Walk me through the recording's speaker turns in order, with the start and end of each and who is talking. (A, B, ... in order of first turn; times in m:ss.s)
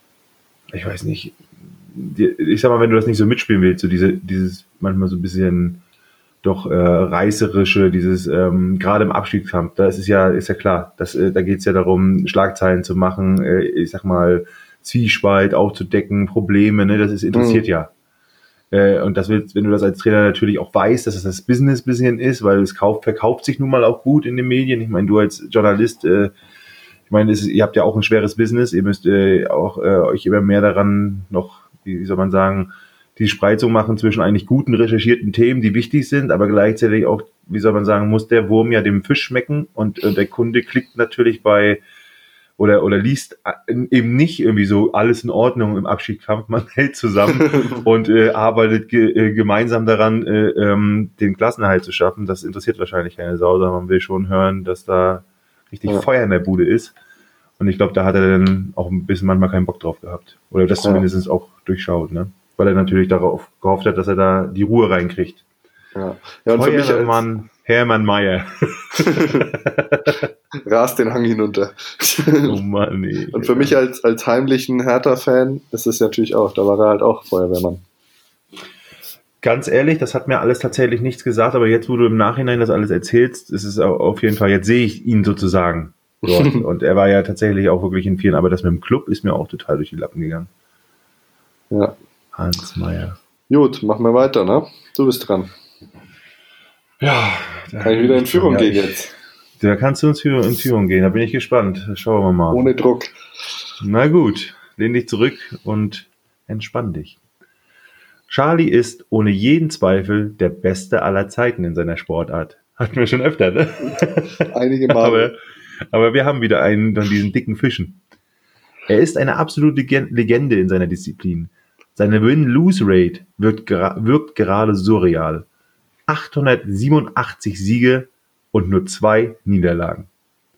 0:00.7-0:05.8 A
0:06.4-0:17.9 A
0:17.3-0:17.7 B
0:18.7-0:26.3 A
0:27.1-0:41.8 A
0:42.6-0:56.9 A
0:47.4-0:47.8 B
0:57.6-1:05.4 A
1:06.0-1:07.2 B
1:06.5-1:10.2 A
1:09.0-1:09.5 B
1:10.6-1:12.6 B
1:12.4-1:13.8 A
1:13.3-1:17.8 B
1:19.4-1:30.5 A
1:26.2-1:26.6 B
1:32.3-1:33.2 A
1:33.5-1:35.5 B
1:37.0-1:42.7 A
1:37.8-1:39.1 B
1:42.5-1:43.1 B
1:43.8-1:47.2 A
1:48.3-1:55.3 A
1:54.4-1:55.3 B
1:55.9-1:58.0 A
1:58.9-2:05.5 A
2:06.1-2:10.1 A